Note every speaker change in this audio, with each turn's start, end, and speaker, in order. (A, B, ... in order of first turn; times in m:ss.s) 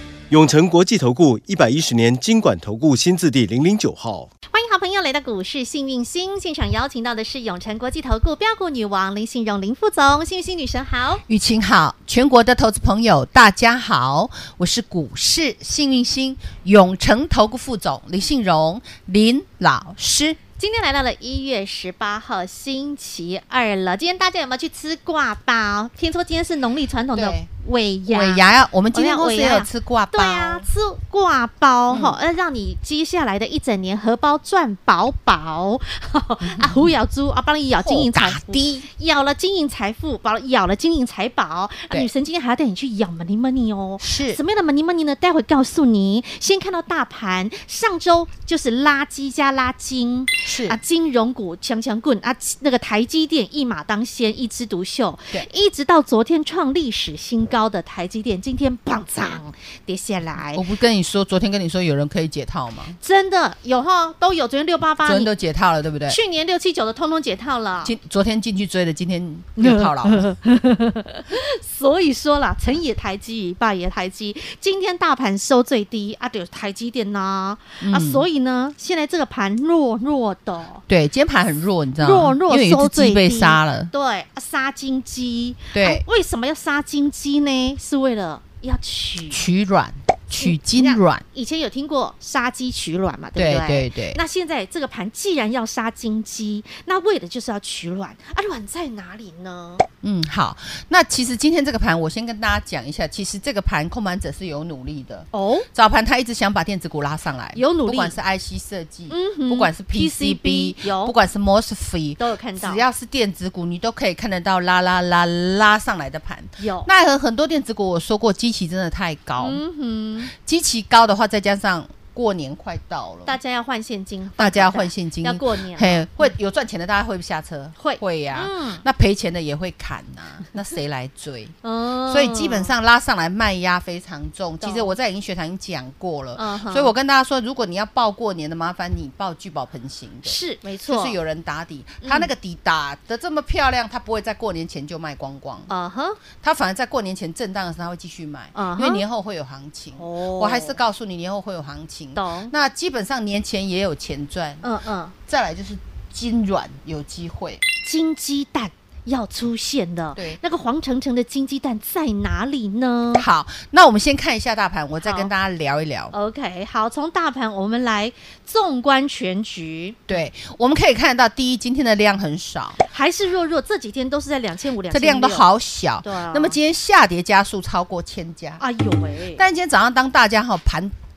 0:00.3-0:04.3 A
0:04.5-0:11.2 B
0:11.3-0:20.4 C
0:20.6-1:00.6 B
0:27.1-0:27.5 C
0:28.1-0:30.6 C
0:31.9-0:32.2 C
0:36.4-0:36.9 C
0:37.8-0:38.8 C
0:44.0-0:44.4 C
0:50.4-0:50.8 C
1:00.5-1:03.0 C
1:03.0-1:05.3 B
1:05.0-1:06.2 C
1:06.1-1:07.9 B
1:07.8-1:10.3 C
1:09.6-1:20.8 B
1:17.8-1:18.2 C
1:20.9-1:23.9 C
1:22.0-1:29.4 B
1:25.7-1:26.0 C
1:29.3-1:31.2 C
1:30.3-1:39.9 B
1:33.4-1:34.2 C
1:40.0-1:59.6 C
1:45.3-1:45.7 B
1:47.5-1:48.1 B
1:49.1-1:51.1 B
1:52.2-1:52.8 B
1:56.6-1:56.9 B
1:59.4-2:00.3 B
2:00.3-2:03.4 C
2:03.2-2:06.3 B
2:04.4-2:11.6 C
2:07.8-2:08.8 B
2:11.6-2:12.7 B
2:12.1-2:25.7 C
2:14.6-2:14.9 B
2:16.4-2:16.9 B
2:20.2-2:21.2 B
2:22.0-2:22.3 B
2:25.7-2:26.2 B
2:26.4-2:34.6 C
2:28.5-2:29.0 B
2:30.0-2:30.8 B
2:32.2-2:32.5 B
2:34.6-2:35.1 B
2:35.2-2:37.6 C
2:37.8-2:43.2 B
2:43.1-2:46.1 C
2:45.0-2:45.3 B
2:46.1-2:50.1 B
2:50.1-2:52.8 C
2:52.8-2:55.4 B
2:54.9-2:58.6 C
2:56.0-2:56.6 B
2:58.6-2:59.4 B
2:59.3-3:00.9 C